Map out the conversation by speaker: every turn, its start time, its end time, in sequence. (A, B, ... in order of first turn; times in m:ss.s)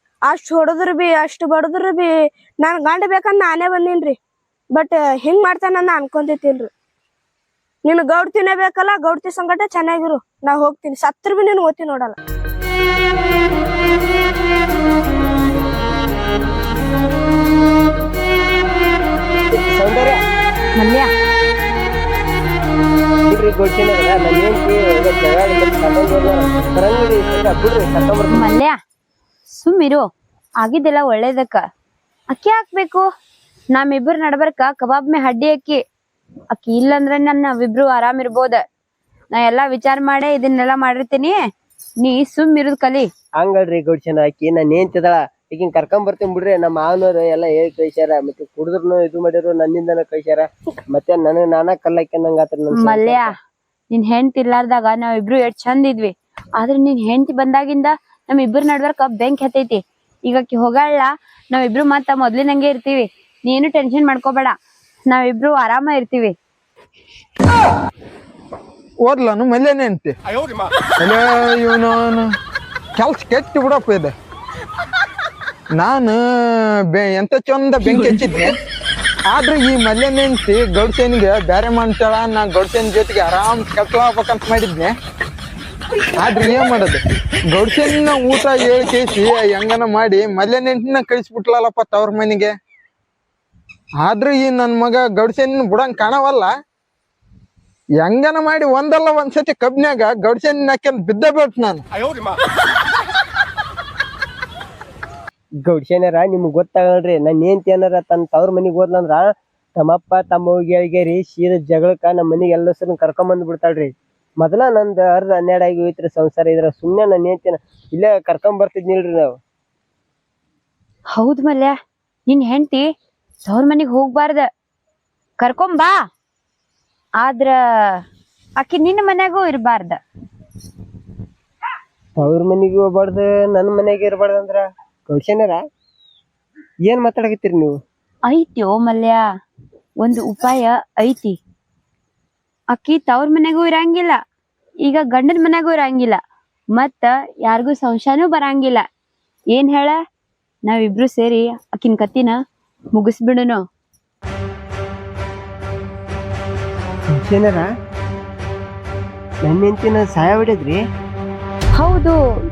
0:00.2-0:04.2 A
0:04.7-0:06.7 A
0:07.8-0:12.2 A
0:19.5-0:20.2 B
0:20.8-0:21.1 C
0:23.3-0:28.5 B
0:28.3-0:28.8 C
0:29.5-0:30.0 C
0:30.6-0:31.6 C
0:32.3-0:33.0 C
0:33.7-0:35.8 C
0:36.5-0:38.6 C
0:39.3-0:41.4 C
0:42.0-0:43.1 C
0:43.4-0:53.3 B
0:52.8-0:53.3 C
0:53.9-1:04.5 C
1:05.1-1:06.3 C
1:09.0-1:10.1 D
1:11.0-1:12.2 D
1:13.0-1:14.1 D
1:15.8-1:16.2 D
1:16.9-1:18.5 D
1:19.3-1:24.9 D
1:26.2-1:32.5 D
1:34.0-1:36.5 D
1:38.0-1:41.8 D
1:45.6-1:49.2 B
1:49.8-1:53.9 B
1:54.4-1:59.4 B
2:01.1-2:01.8 C
2:02.3-2:02.9 C
2:03.4-2:04.4 C
2:05.4-2:06.0 C
2:07.2-2:07.6 C
2:08.6-2:10.0 C
2:12.2-2:15.6 B
2:16.9-2:17.7 B
2:18.3-2:19.2 C
2:20.0-2:21.3 C
2:22.7-2:24.2 C
2:24.8-2:26.2 C
2:26.8-2:28.8 C
2:29.5-2:30.0 C
2:30.7-2:32.3 C
2:32.9-2:33.6 C
2:37.1-2:37.6 B
2:39.4-2:40.8 B
2:41.8-2:42.2 C